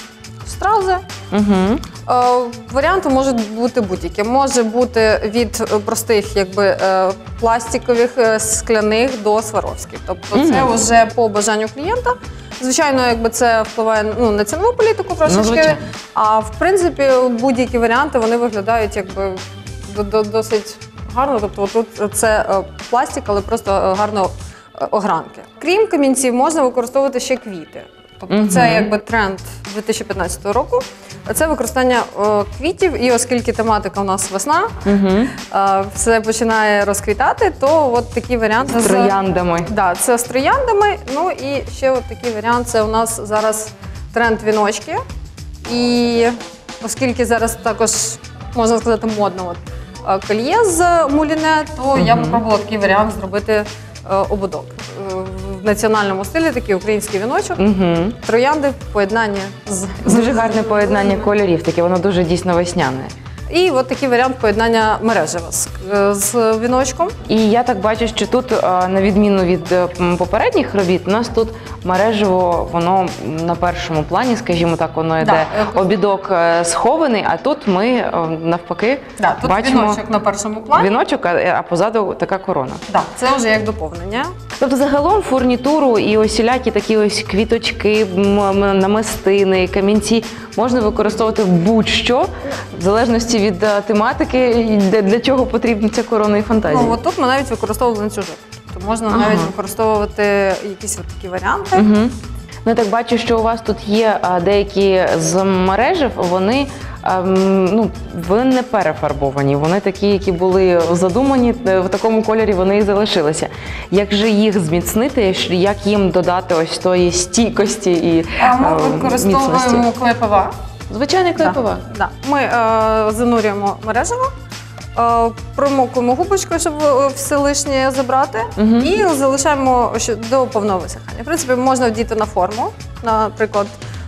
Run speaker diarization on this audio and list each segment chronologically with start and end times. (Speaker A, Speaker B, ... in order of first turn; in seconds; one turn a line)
Speaker A: 0.4-1.0
Speaker B: 1.3-1.8
Speaker A: 2.0-34.8
Speaker B: 10.3-10.7
Speaker B: 15.2-15.8
Speaker B: 28.3-28.9
Speaker B: 34.8-35.3
Speaker A: 35.3-45.0
Speaker B: 38.8-39.7
Speaker A: 45.6-57.6
Speaker B: 51.9-52.4
Speaker B: 57.6-58.1
Speaker A: 58.1-61.3
Speaker B: 60.0-63.1
Speaker A: 63.5-67.1
Speaker B: 67.3-80.0
Speaker A: 75.2-76.0
Speaker A: 79.2-81.0
Speaker B: 80.7-82.8
Speaker A: 82.9-84.3
Speaker B: 84.6-97.0
Speaker A: 96.7-101.9
Speaker B: 99.1-99.5
Speaker B: 101.7-119.8
Speaker A: 118.4-120.5
Speaker B: 120.9-121.8
Speaker A: 121.4-124.3
Speaker A: 124.9-133.8
Speaker B: 128.6-128.9